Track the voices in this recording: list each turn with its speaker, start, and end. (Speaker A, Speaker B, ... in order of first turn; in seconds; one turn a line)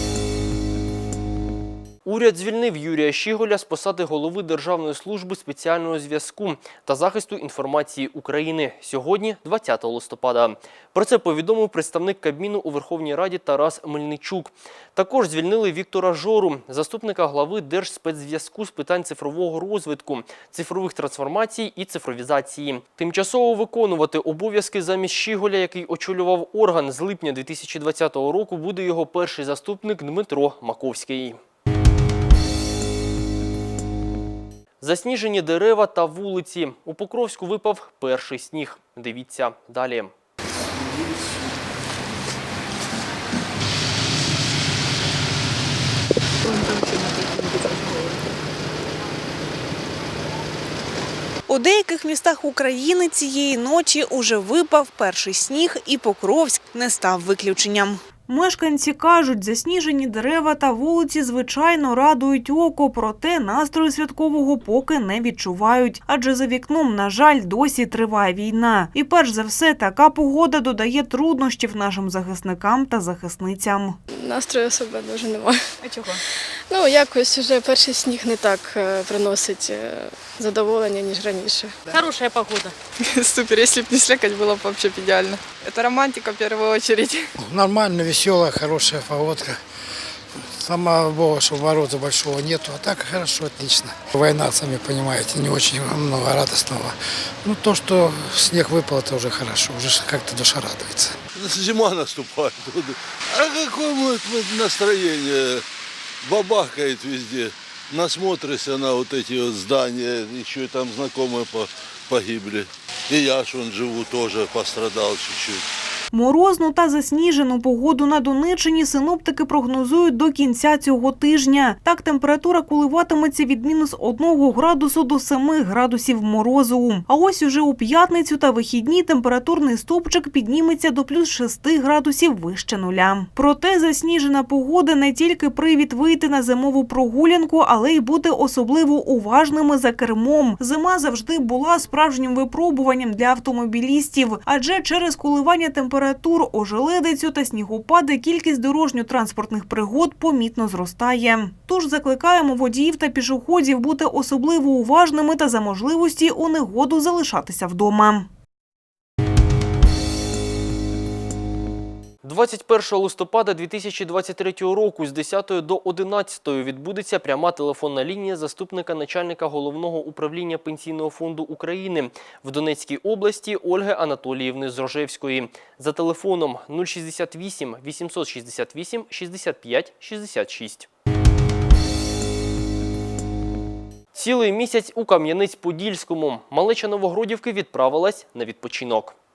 Speaker A: 2.0-31.4
Speaker A: 34.8-40.1
Speaker B: 51.5-74.0
Speaker C: 74.1-75.6
Speaker C: 76.7-81.8
Speaker D: 83.0-87.3
Speaker E: 87.4-89.6
Speaker E: 90.4-101.2
Speaker F: 101.3-105.6
Speaker F: 106.2-115.6
Speaker B: 116.1-158.3
Speaker A: 162.2-180.9
Speaker A: 184.1-189.2